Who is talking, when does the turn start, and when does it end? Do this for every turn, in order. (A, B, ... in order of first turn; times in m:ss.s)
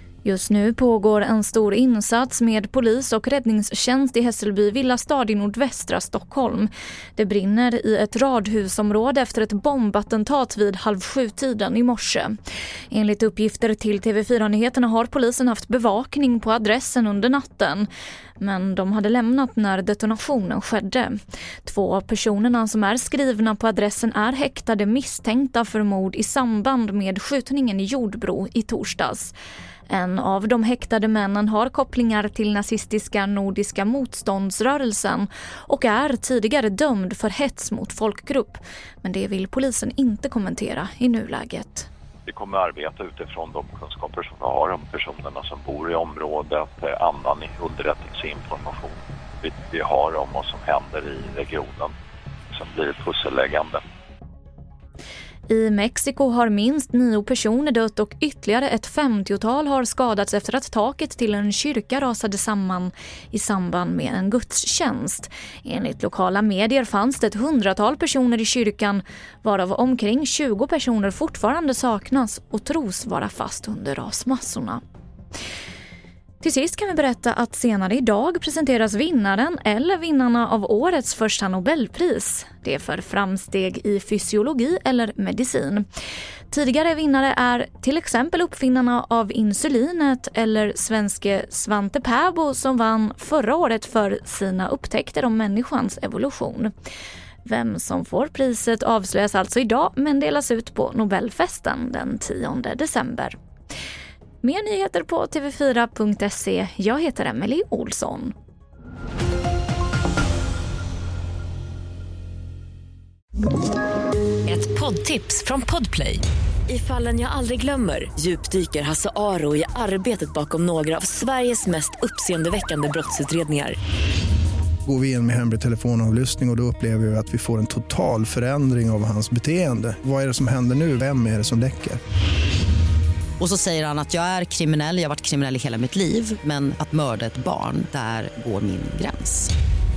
0:00.2-0:12.4 A
0:12.9-0:17.9 A
0:18.4-0:29.3 A
0:29.9-0:41.9 A
0:42.3-0:51.9 B
0:52.5-0:53.8 B
0:55.5-1:14.8 A
1:16.4-1:25.8 A
1:26.5-1:36.7 A
1:37.4-1:43.4 A
1:44.4-1:48.3 A
1:54.5-2:03.8 C
2:04.9-2:12.0 D
2:13.4-2:19.5 E